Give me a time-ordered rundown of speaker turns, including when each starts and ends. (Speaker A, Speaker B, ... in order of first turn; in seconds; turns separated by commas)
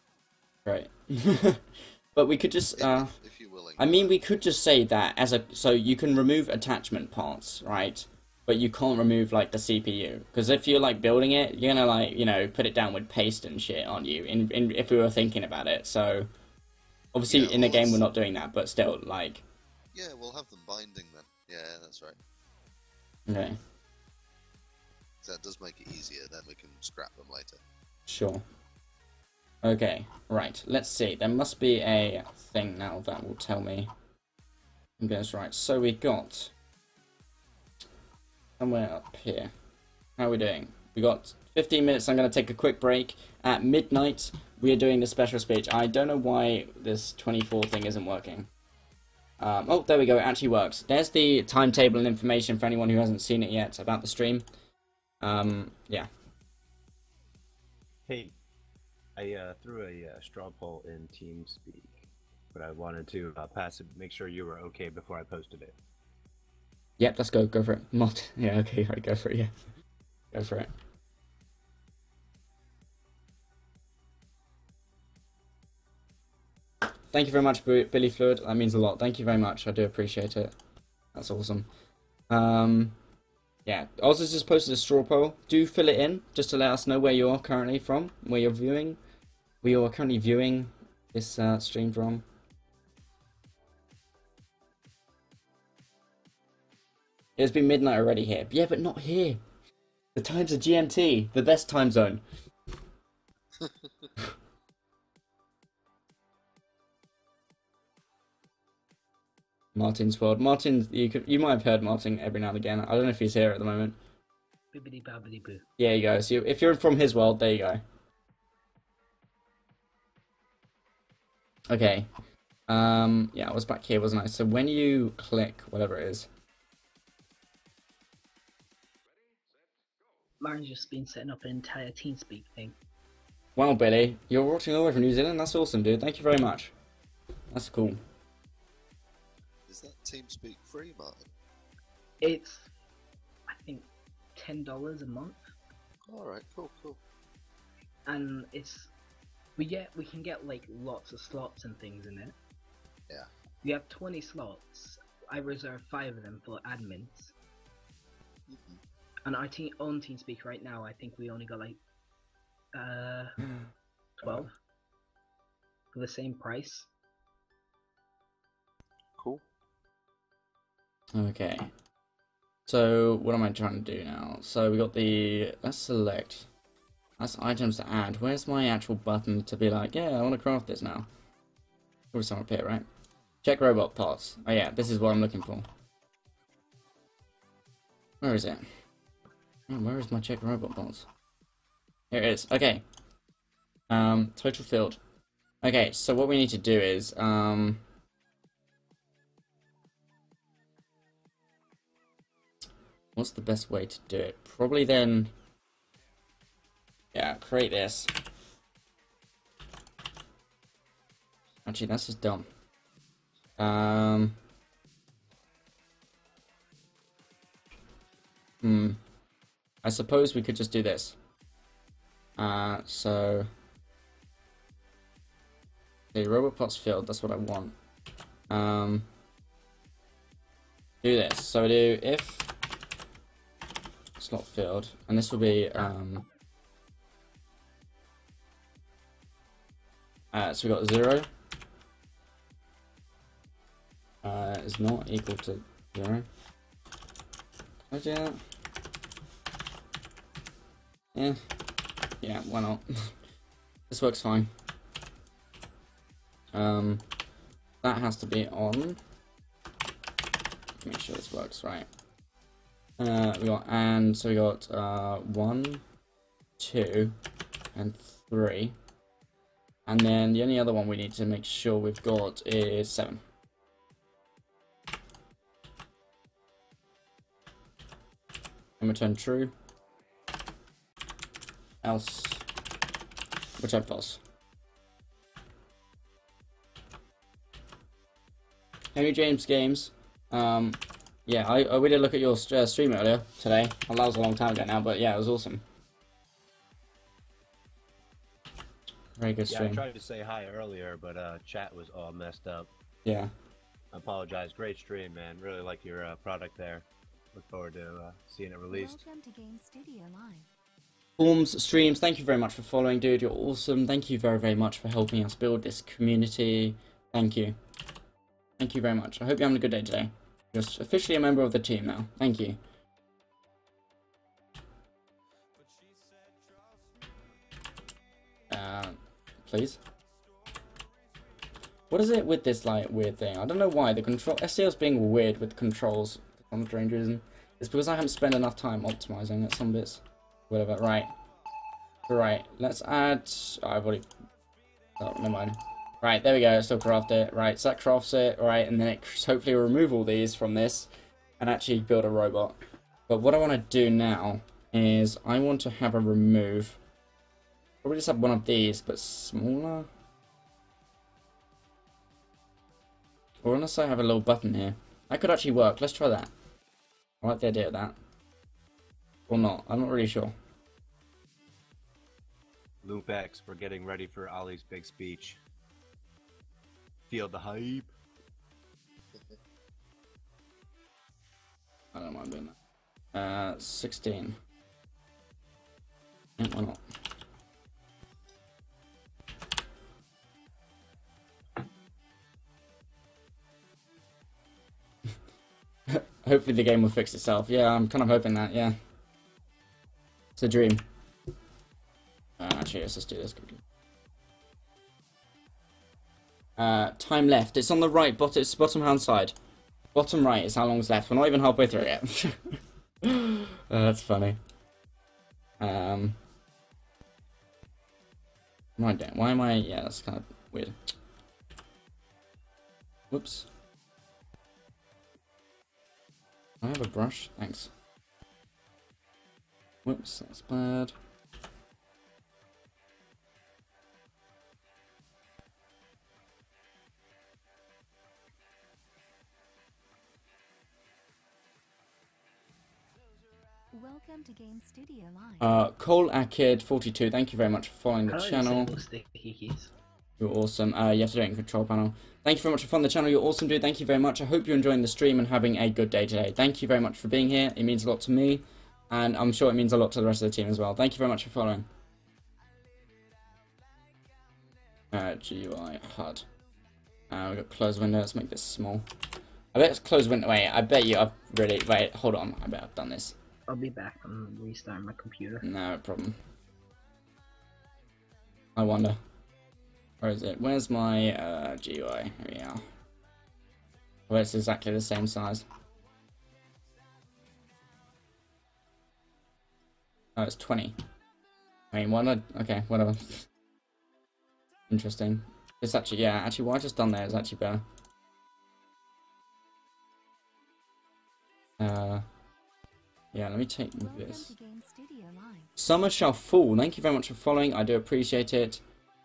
Speaker A: 0.7-3.1, Speaker B: 2.8-4.2, Speaker A: 3.8-16.3, Speaker A: 17.1-19.4, Speaker B: 17.3-18.0, Speaker B: 19.9-22.2, Speaker A: 23.3-23.6, Speaker B: 25.2-27.6, Speaker A: 28.1-28.4, Speaker A: 29.6-33.9, Speaker A: 35.0-36.5, Speaker A: 38.6-39.5, Speaker A: 40.2-48.5, Speaker A: 49.4-54.5, Speaker A: 55.2-56.1, Speaker C: 58.1-58.3, Speaker C: 59.2-65.8, Speaker A: 67.0-69.5, Speaker A: 70.3-70.7, Speaker A: 77.1-80.5, Speaker A: 81.1-81.7, Speaker A: 82.3-83.0, Speaker A: 83.7-89.0, Speaker A: 89.6-92.2, Speaker A: 97.4-99.4, Speaker A: 100.2-102.2, Speaker B: 103.6-104.1, Speaker A: 109.8-114.0, Speaker D: 114.7-115.7, Speaker A: 115.8-117.8, Speaker A: 121.7-122.1, Speaker A: 122.7-126.3, Speaker D: 130.4-132.8, Speaker A: 133.6-136.7, Speaker A: 137.5-138.0, Speaker B: 139.7-141.3, Speaker D: 142.2-142.7, Speaker D: 143.5-145.4, Speaker B: 146.1-147.0, Speaker D: 148.1-148.9, Speaker D: 149.6-152.3, Speaker D: 153.6-157.3, Speaker B: 158.5-158.8, Speaker D: 159.2-161.8, Speaker D: 162.7-163.4, Speaker D: 164.2-164.5, Speaker D: 165.9-166.9, Speaker A: 171.1-171.7, Speaker A: 172.7-176.5, Speaker A: 177.2-181.1, Speaker A: 182.1-182.9, Speaker A: 183.4-185.7, Speaker A: 188.2-188.7, Speaker A: 189.7-191.1, Speaker A: 192.1-192.8, Speaker A: 193.9-195.0, Speaker A: 195.6-197.8, Speaker A: 203.2-205.3, Speaker A: 207.1-208.1, Speaker A: 211.7-212.5, Speaker A: 213.6-214.4, Speaker A: 218.6-219.0, Speaker A: 219.8-221.2, Speaker A: 222.4-223.5, Speaker A: 226.1-227.8, Speaker A: 228.5-229.1, Speaker A: 231.0-232.5, Speaker A: 234.2-236.2, Speaker A: 240.3-241.3, Speaker A: 244.2-246.3, Speaker A: 247.9-248.4, Speaker A: 251.1-251.4, Speaker A: 252.2-253.2, Speaker A: 253.9-254.5, Speaker A: 256.5-257.0, Speaker A: 257.8-259.0, Speaker A: 260.8-261.9, Speaker A: 263.0-265.8, Speaker A: 266.6-267.2, Speaker A: 267.8-268.8, Speaker A: 269.9-273.2, Speaker A: 278.8-279.5, Speaker A: 281.8-282.4, Speaker A: 283.6-284.2, Speaker A: 288.9-295.6, Speaker A: 299.2-299.8, Speaker C: 299.5-302.7, Speaker A: 303.1-303.3, Speaker C: 303.9-309.0, Speaker E: 308.7-310.5, Speaker A: 311.2-317.6, Speaker A: 318.6-322.6, Speaker A: 328.5-329.8, Speaker A: 331.9-341.1, Speaker A: 342.1-344.1, Speaker A: 345.0-356.8, Speaker A: 357.8-359.9, Speaker A: 363.4-366.3, Speaker A: 367.2-368.0, Speaker A: 369.3-370.3, Speaker C: 372.8-375.4, Speaker C: 377.1-377.9, Speaker A: 381.9-382.6, Speaker A: 383.1-384.4, Speaker A: 386.4-386.8, Speaker A: 395.9-398.8, Speaker A: 400.4-400.8, Speaker A: 402.4-403.6, Speaker A: 406.6-409.4, Speaker A: 409.9-414.4, Speaker A: 415.6-416.2, Speaker A: 418.8-420.9, Speaker A: 423.1-423.5, Speaker A: 426.6-427.7, Speaker A: 429.9-430.9, Speaker E: 443.7-445.6, Speaker A: 445.4-448.8, Speaker D: 448.1-449.7, Speaker A: 450.2-461.7, Speaker A: 464.9-466.3, Speaker A: 467.1-468.9, Speaker A: 469.5-473.2, Speaker D: 473.5-475.5, Speaker A: 475.4-476.2, Speaker A: 478.6-479.0, Speaker A: 480.0-482.6, Speaker A: 484.1-485.5, Speaker A: 490.2-490.8, Speaker A: 491.7-493.3, Speaker A: 494.7-497.6, Speaker A: 501.6-502.1, Speaker A: 503.1-504.3, Speaker E: 503.8-505.6, Speaker A: 505.6-508.6